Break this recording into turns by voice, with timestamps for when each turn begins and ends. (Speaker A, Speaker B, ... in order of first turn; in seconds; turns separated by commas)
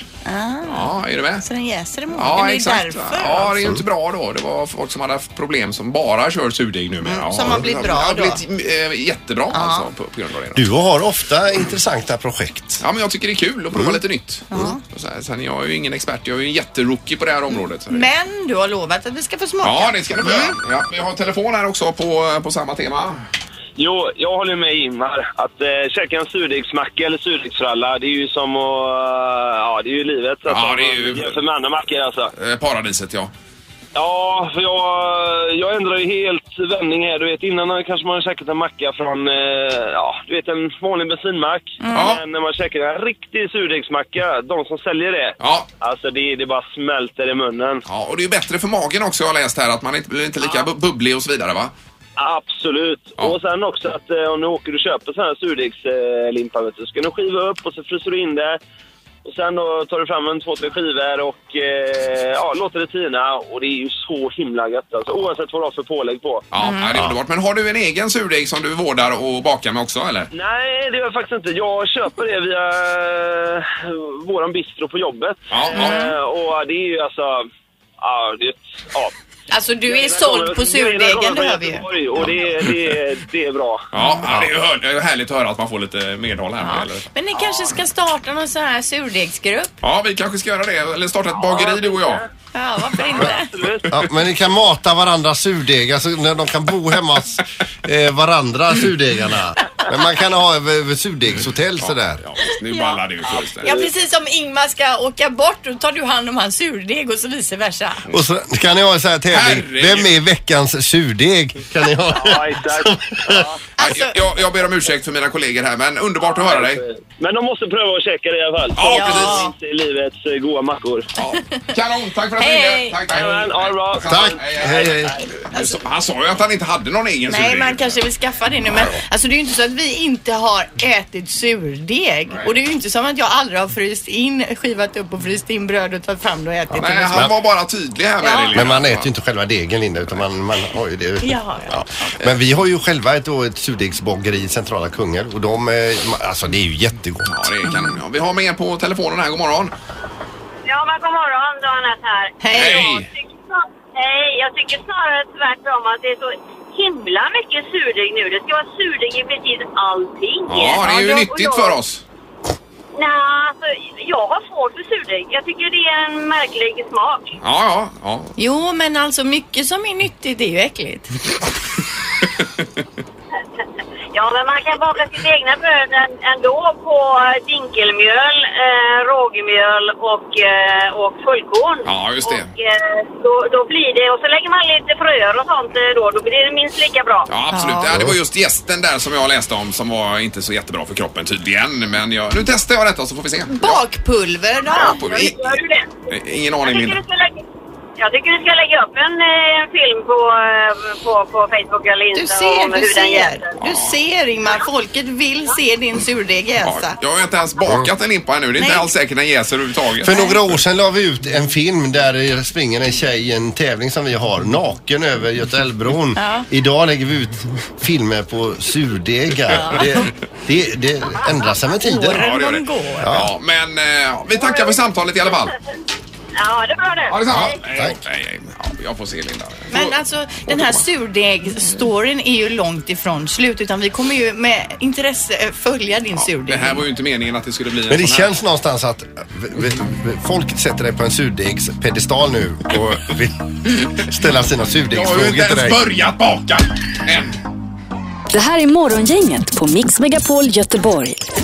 Speaker A: 0.2-3.6, Speaker B: 0.7-1.4, Speaker B: 2.1-10.7, Speaker A: 7.0-8.4, Speaker A: 9.5-9.9, Speaker C: 10.5-12.8, Speaker B: 12.8-18.0, Speaker C: 13.7-14.0, Speaker A: 14.5-14.8, Speaker A: 17.5-20.6, Speaker B: 19.6-23.2, Speaker D: 23.8-32.3, Speaker B: 30.4-31.4, Speaker B: 32.3-33.3, Speaker D: 33.9-47.8, Speaker A: 41.8-42.2, Speaker B: 41.9-42.2, Speaker B: 45.4-45.7, Speaker B: 47.9-51.7, Speaker D: 52.2-58.6, Speaker D: 59.2-66.5, Speaker B: 66.5-70.3, Speaker A: 66.6-67.0, Speaker D: 70.3-77.5, Speaker B: 75.5-76.0, Speaker A: 75.7-76.1, Speaker D: 78.0-79.1, Speaker A: 79.5-81.8, Speaker D: 79.8-83.9, Speaker B: 83.9-87.0, Speaker A: 86.6-89.7, Speaker B: 89.8-92.2, Speaker D: 91.3-92.3, Speaker A: 92.5-93.5, Speaker D: 93.0-93.9, Speaker C: 93.9-102.2, Speaker B: 101.8-103.7, Speaker A: 102.5-103.0, Speaker A: 103.6-108.0, Speaker D: 103.6-103.9, Speaker C: 108.1-113.5, Speaker B: 109.3-110.1, Speaker D: 112.1-113.6, Speaker A: 113.8-114.2, Speaker B: 113.8-116.8, Speaker D: 116.2-121.1, Speaker B: 118.8-119.5, Speaker A: 118.9-119.5, Speaker B: 121.2-128.0, Speaker A: 122.4-123.0, Speaker D: 123.1-124.8, Speaker C: 124.1-125.2, Speaker A: 127.3-137.2, Speaker C: 136.7-137.3, Speaker B: 136.8-139.1, Speaker A: 138.2-138.6, Speaker C: 138.5-147.5, Speaker A: 141.2-142.1, Speaker B: 147.2-149.7, Speaker E: 150.7-161.8, Speaker A: 152.4-152.8, Speaker B: 152.5-153.1, Speaker B: 160.5-162.0, Speaker E: 162.9-167.4, Speaker B: 167.4-168.3, Speaker A: 168.4-171.1, Speaker E: 174.1-187.3, Speaker B: 181.8-182.5, Speaker B: 187.3-193.8, Speaker A: 187.5-187.9, Speaker C: 187.9-188.2, Speaker A: 193.5-195.0, Speaker E: 194.7-195.9, Speaker B: 194.7-197.0, Speaker E: 196.6-197.4, Speaker E: 198.0-203.5, Speaker A: 202.1-206.9, Speaker B: 203.6-203.9, Speaker B: 206.6-210.1, Speaker A: 208.6-208.9, Speaker C: 210.0-222.3, Speaker A: 210.1-210.4, Speaker A: 216.2-216.5, Speaker A: 219.5-219.8, Speaker A: 221.8-223.1, Speaker B: 222.1-225.5, Speaker C: 223.0-223.3, Speaker E: 224.3-224.8, Speaker E: 226.3-227.2, Speaker B: 227.1-229.9, Speaker C: 227.3-228.0, Speaker A: 229.7-236.8, Speaker B: 230.5-230.8, Speaker B: 236.2-238.3, Speaker C: 237.9-245.8, Speaker B: 244.9-247.4, Speaker F: 248.3-251.2